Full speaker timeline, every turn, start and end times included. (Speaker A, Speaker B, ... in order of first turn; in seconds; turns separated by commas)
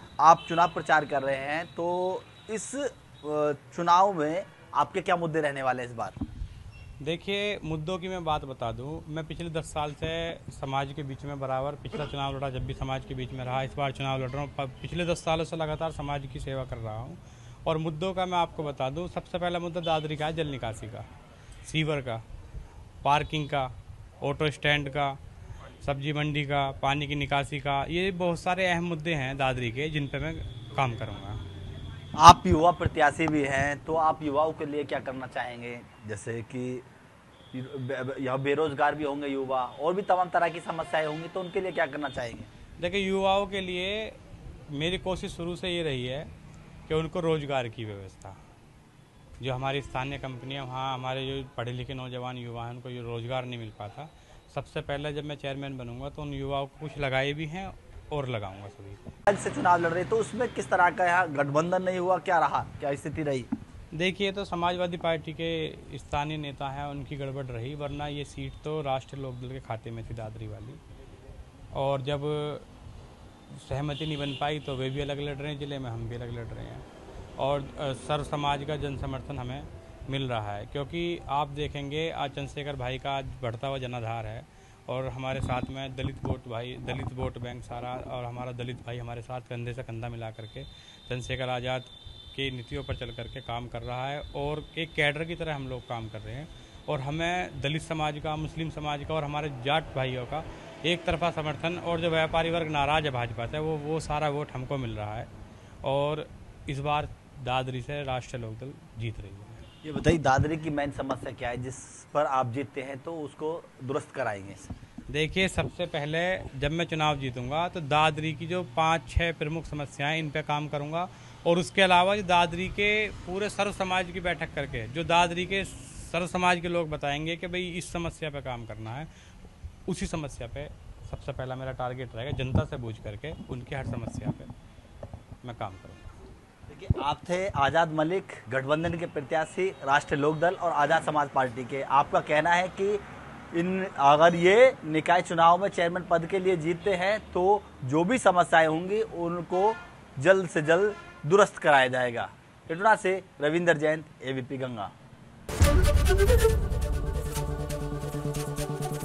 Speaker A: 0.2-6.2, Speaker B: 7.0-21.1, Speaker B: 21.6-22.2, Speaker B: 23.0-25.2, Speaker B: 25.8-31.4, Speaker A: 32.2-36.8, Speaker A: 37.5-42.5, Speaker B: 42.8-44.2, Speaker B: 44.7-46.3, Speaker B: 46.9-48.4, Speaker B: 49.4-59.0, Speaker A: 59.3-63.5, Speaker B: 63.9-70.8, Speaker B: 71.7-72.7, Speaker B: 73.5-76.8, Speaker B: 77.4-105.3, Speaker B: 105.8-109.6, Speaker A: 109.8-114.7, Speaker B: 115.1-129.1, Speaker B: 129.9-134.5, Speaker B: 135.4-136.1, Speaker A: 136.7-143.0, Speaker A: 143.5-154.9